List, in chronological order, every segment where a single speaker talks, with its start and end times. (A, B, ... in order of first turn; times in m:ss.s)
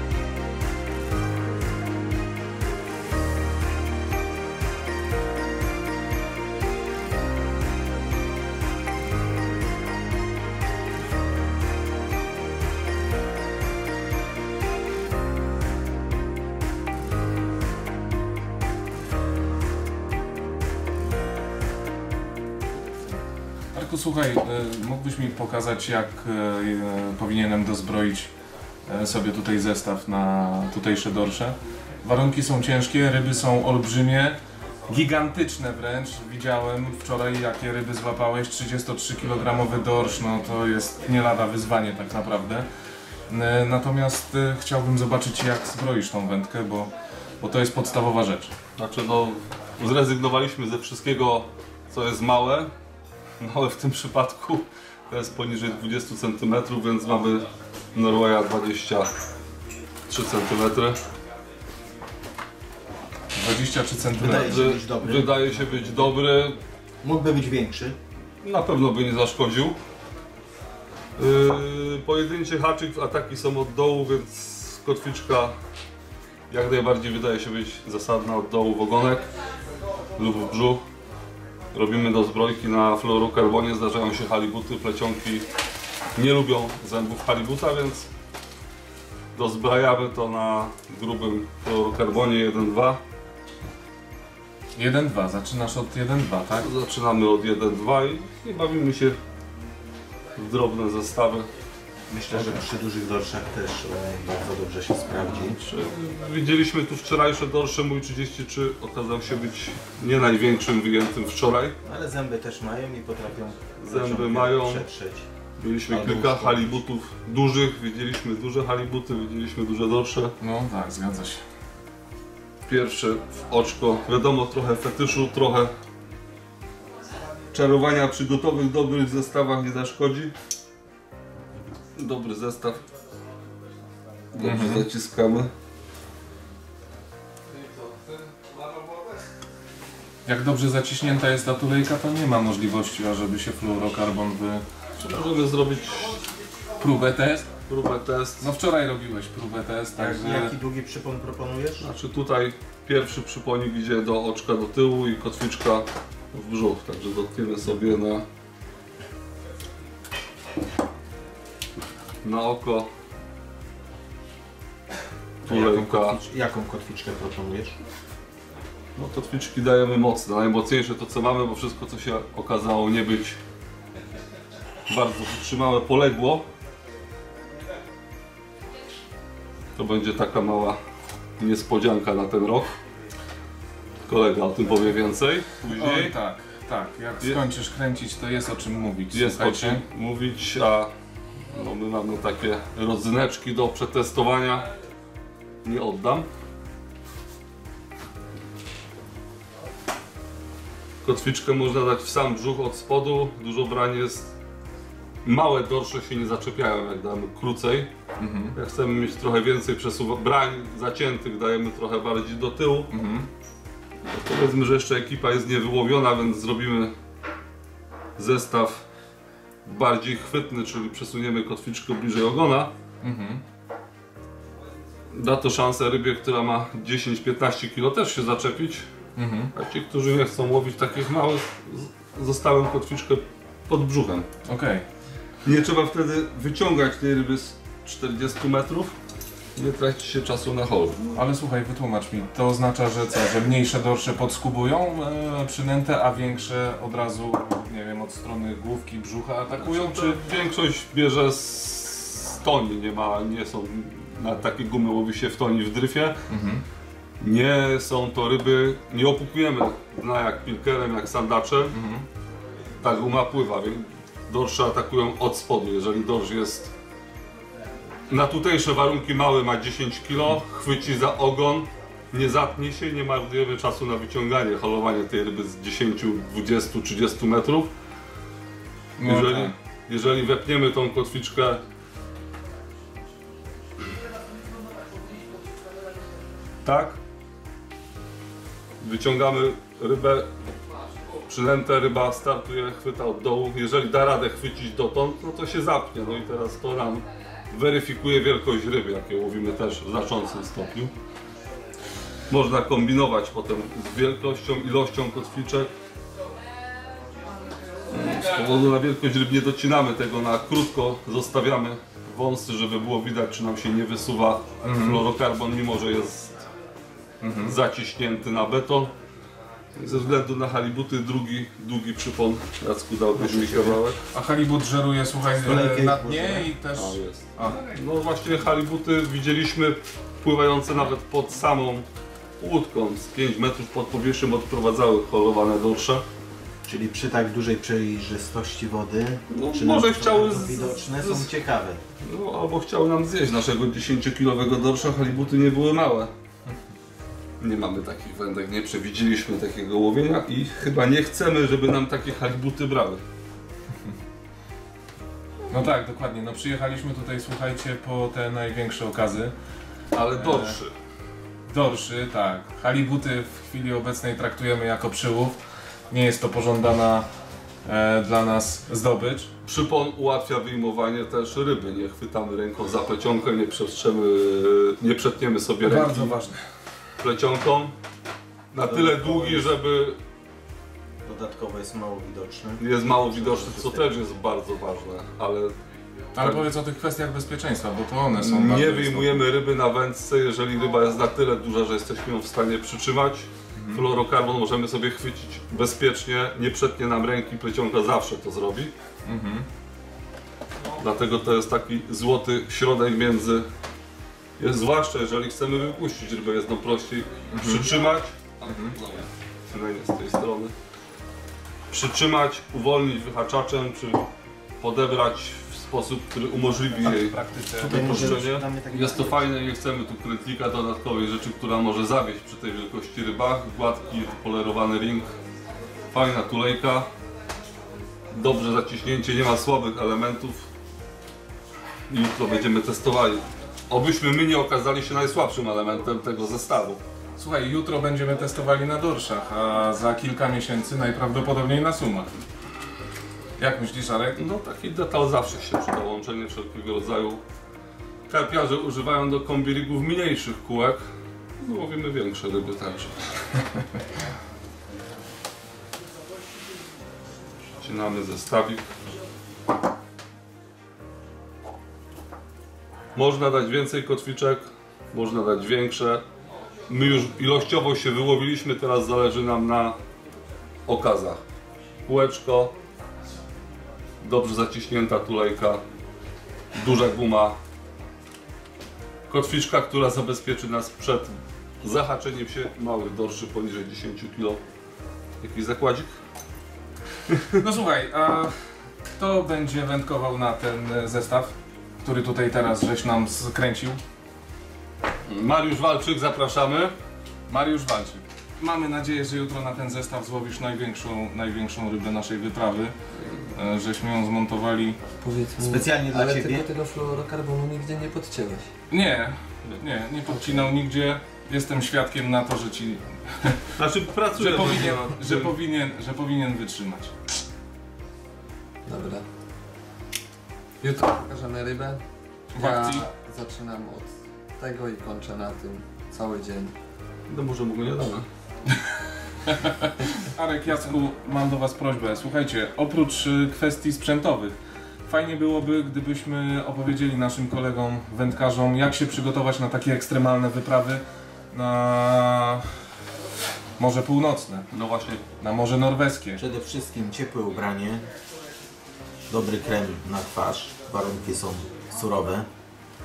0:23.7-0:28.3 A
0:28.9-0:42.7 A
0:43.3-0:48.5 A
0:48.8-0:52.7 B
0:53.4-0:59.1 B
1:00.1-1:01.0 B
1:03.3-1:04.7 A
1:04.2-1:06.1 C
1:04.2-1:06.6 B
1:07.0-1:08.0 C
1:08.4-1:09.8 B
1:11.2-1:15.5 B
1:16.5-1:19.2 B
1:20.2-1:20.8 B
1:21.7-1:25.5 B
1:26.2-1:28.1 B
1:29.3-1:33.0 B
1:34.7-1:36.7 A
1:36.6-1:39.2 B
1:40.4-1:41.5 B
1:42.1-1:45.6 C
1:45.4-1:51.8 B
1:51.8-1:55.2 C
1:53.8-1:54.8 B
1:55.6-2:00.3 B
1:55.9-1:56.8 C
2:00.4-2:01.4 A
2:02.7-2:05.7 B
2:07.5-2:10.3 B
2:12.0-2:12.8 B
2:14.3-2:15.5 B
2:14.4-2:14.8 A
2:17.6-2:18.5 B
2:20.2-2:24.6 A
2:25.0-2:26.2 B
2:26.8-2:27.5 A
2:27.7-2:28.5 B
2:28.4-2:30.5 A
2:30.0-2:31.9 C
2:31.8-2:38.2 B
2:42.2-2:42.9 B
2:45.4-2:47.8 C
2:45.4-2:46.2 B
2:49.0-2:53.4 B
2:54.9-2:56.5 B
2:59.8-3:00.8 B
3:01.4-3:02.8 B
3:04.0-3:06.1 B
3:05.7-3:09.8 A
3:09.1-3:10.9 B
3:11.5-3:14.7 B
3:15.6-3:16.3 B
3:21.0-3:24.3 B
3:25.2-3:27.9 B
3:28.2-3:28.5 A
3:28.5-3:32.9 B
3:32.9-3:33.3 A
3:34.0-3:36.9 B
3:38.2-3:38.8 B
3:39.6-3:42.7 B
3:43.0-3:43.4 A
3:45.1-3:48.9 B
3:49.2-3:49.5 A
3:49.5-3:54.3 B
3:54.5-3:54.8 A
3:55.4-3:58.9 B
3:59.6-4:01.2 B
4:01.1-4:10.2 A
4:09.5-4:16.2 B
4:16.3-4:16.6 A
4:17.2-4:21.8 B
4:21.7-4:22.0 A
4:22.8-4:26.7 B
4:28.1-4:37.7 B
4:39.0-4:39.5 A
4:39.0-4:41.6 B
4:46.6-4:47.0 B
4:48.8-4:50.3 B
4:51.2-5:00.9 B
5:02.3-5:05.7 B
5:07.9-5:16.5 B
5:14.6-5:15.0 A
5:17.2-5:17.6 A
5:17.4-5:18.9 B
5:19.8-5:24.0 B
5:23.2-5:23.8 C
5:24.1-5:27.6 A
5:25.4-5:26.5 C
5:26.7-5:31.8 B
5:32.4-5:36.0 B
5:36.6-5:41.8 C
5:39.3-5:41.3 B
5:42.0-5:46.1 B
5:47.4-5:53.0 B
5:55.5-5:59.3 A
5:59.9-6:00.7 B
6:00.1-6:00.6 A
6:01.5-6:05.4 A
6:05.9-6:07.0 A
6:07.6-6:09.3 A
6:09.4-6:16.1 B
6:15.6-6:16.4 A
6:17.0-6:17.7 B
6:18.5-6:20.0 B
6:18.6-6:19.5 C
6:21.0-6:24.0 C
6:22.6-6:25.5 B
6:26.1-6:29.2 A
6:26.2-6:26.4 B
6:28.1-6:38.7 B
6:33.5-6:33.8 A
6:39.0-6:39.5 A
6:40.8-6:43.5 B
6:44.4-6:50.5 B
6:47.3-6:47.7 A
6:48.5-6:48.7 A
6:51.7-6:54.1 B
6:54.6-7:05.1 B
6:56.8-6:58.3 A
6:57.6-6:59.3 C
7:05.9-7:06.9 B
7:08.1-7:10.4 B
7:11.9-7:16.8 B
7:17.2-7:22.1 A
7:23.4-7:24.2 A
7:24.1-7:27.2 B
7:28.1-7:30.8 B
7:31.4-7:33.1 B
7:37.6-7:38.7 B
7:42.9-7:46.0 B
7:46.7-7:49.8 B
7:50.6-7:51.2 B
7:51.8-7:52.6 B
7:54.0-7:55.6 B
7:56.5-7:57.4 B
7:59.1-8:04.4 B
8:05.2-8:05.9 B
8:07.4-8:08.4 A
8:08.9-8:13.8 A
8:15.1-8:16.7 B
8:17.3-8:22.7 A
8:23.3-8:24.8 A
8:25.0-8:28.5 D
8:25.4-8:26.5 C
8:28.7-8:33.4 A
8:33.6-8:35.3 B
8:34.1-8:36.9 A
8:38.6-8:39.0 D
8:40.6-8:41.8 D
8:42.3-8:42.9 A
8:42.3-8:46.5 D
8:47.1-8:48.1 B
8:49.3-9:02.5 A
9:03.6-9:04.5 A
9:04.5-9:05.0 B
9:05.2-9:06.2 A
9:06.2-9:07.9 C
9:09.1-9:12.3 C